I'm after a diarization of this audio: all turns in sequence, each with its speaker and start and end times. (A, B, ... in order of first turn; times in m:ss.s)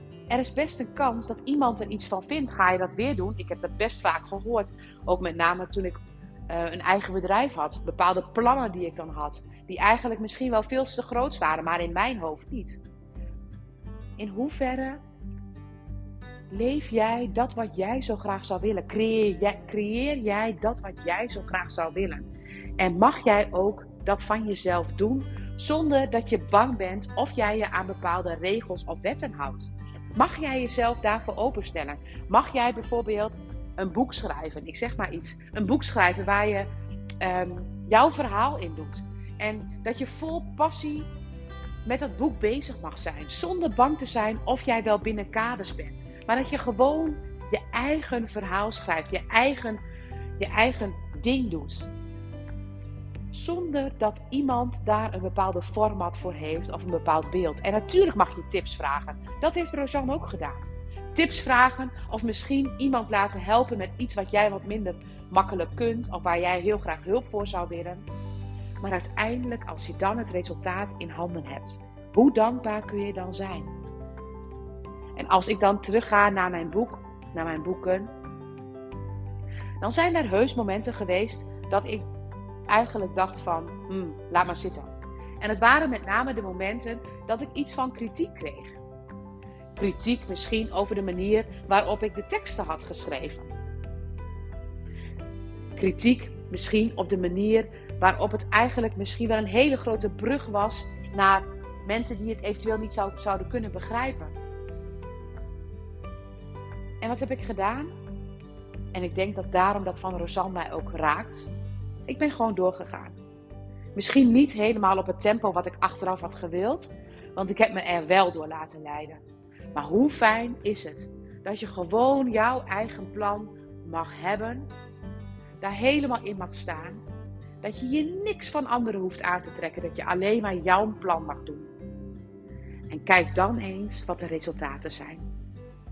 0:00.3-0:06.0 A
0:06.5-0:12.8 A
0:14.2-0:15.0 A
0:16.5-0:36.7 A
0:37.2-0:41.1 A
0:41.8-0:49.8 A
0:50.4-0:51.9 A
0:53.3-1:08.1 A
1:08.8-1:13.7 A
1:15.2-1:18.1 A
1:19.8-1:22.0 A
1:22.7-1:28.8 A
1:29.8-1:33.5 A
1:35.8-1:44.4 A
1:47.0-1:47.9 A
1:48.9-1:51.5 A
1:52.1-1:53.2 A
1:53.9-1:59.2 A
1:59.7-2:04.7 A
2:05.6-2:07.0 A
2:07.6-2:11.7 A
2:12.9-2:15.2 A